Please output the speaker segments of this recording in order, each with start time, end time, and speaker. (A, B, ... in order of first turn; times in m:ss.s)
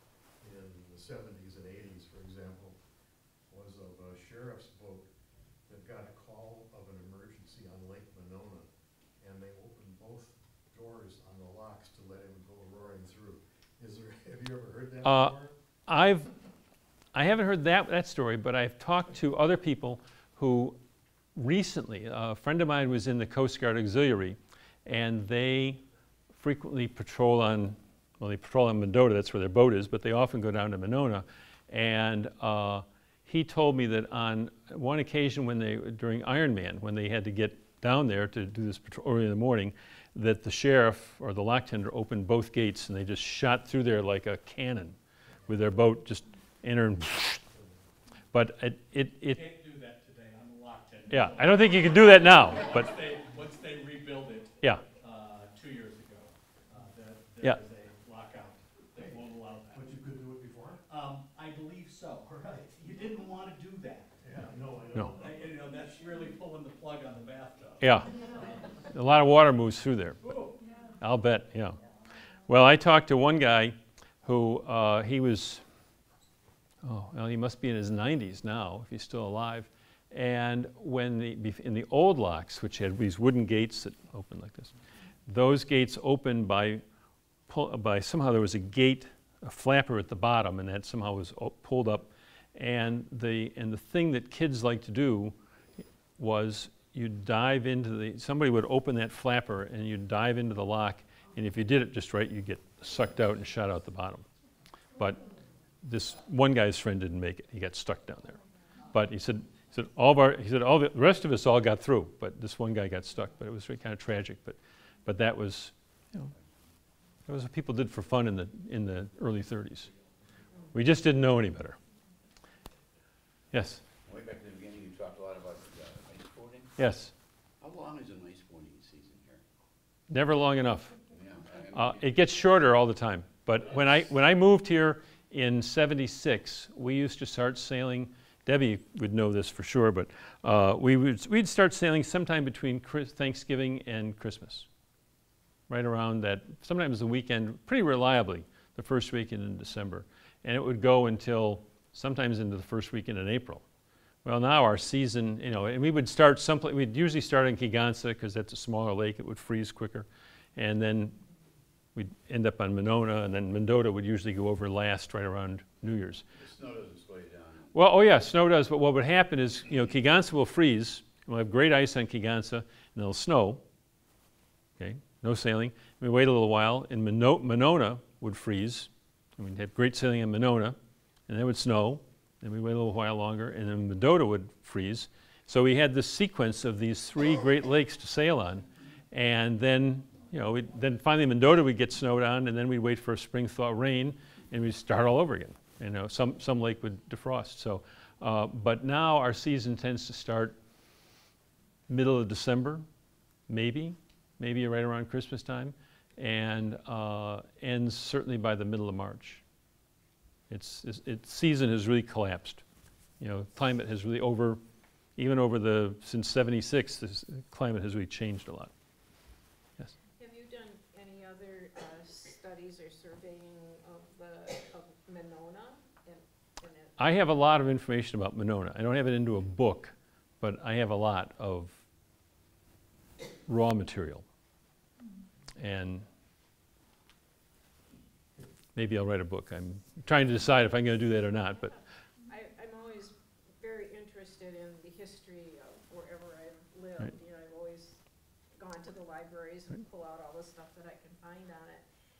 0:00.4-0:02.8 A
0:03.5-0:05.1 A
0:05.7-0:08.7 A
0:09.2-0:15.5 A
0:15.0-0:15.3 B
0:15.9-0:16.3 B
0:17.1-0:20.8 B
0:21.4-0:25.8 B
0:26.3-0:47.4 B
0:48.3-0:49.4 B
0:49.3-1:00.0 C
0:51.1-0:52.9 B
0:59.7-1:00.8 A
1:00.9-1:04.2 C
1:04.2-1:05.6 A
1:05.1-1:08.7 C
1:07.8-1:08.2 B
1:08.8-1:10.2 B
1:10.2-1:10.6 C
1:11.0-1:11.8 B
1:12.5-1:15.6 B
1:16.8-1:24.7 B
1:25.3-1:26.8 B
1:27.5-1:35.4 B
1:36.2-1:44.2 B
1:45.0-1:45.2 B
1:45.8-1:48.4 B
1:48.9-1:56.3 B
1:57.3-1:59.9 B
2:00.7-2:01.8 B
2:03.5-2:03.8 B
2:04.0-2:06.6 D
2:06.8-2:07.1 B
2:07.6-2:09.4 D
2:10.1-2:11.0 B
2:11.1-2:11.7 D
2:11.6-2:24.7 B
2:25.7-2:33.6 B
2:34.2-2:41.2 B
2:41.9-2:46.2 B
2:46.4-2:47.6 D
2:47.7-2:53.6 B
2:54.8-3:00.8 B
3:01.3-3:20.6 B
3:21.9-3:22.8 B
3:23.5-3:29.4 B
3:30.5-3:32.6 B
3:33.2-3:34.6 B
3:35.2-3:38.7 B
3:40.2-3:47.1 E
3:47.0-3:51.8 B
3:53.5-3:54.2 B
3:55.6-3:56.0 B
3:58.7-4:01.7 B
4:02.3-4:08.0 E
4:08.6-4:11.8 E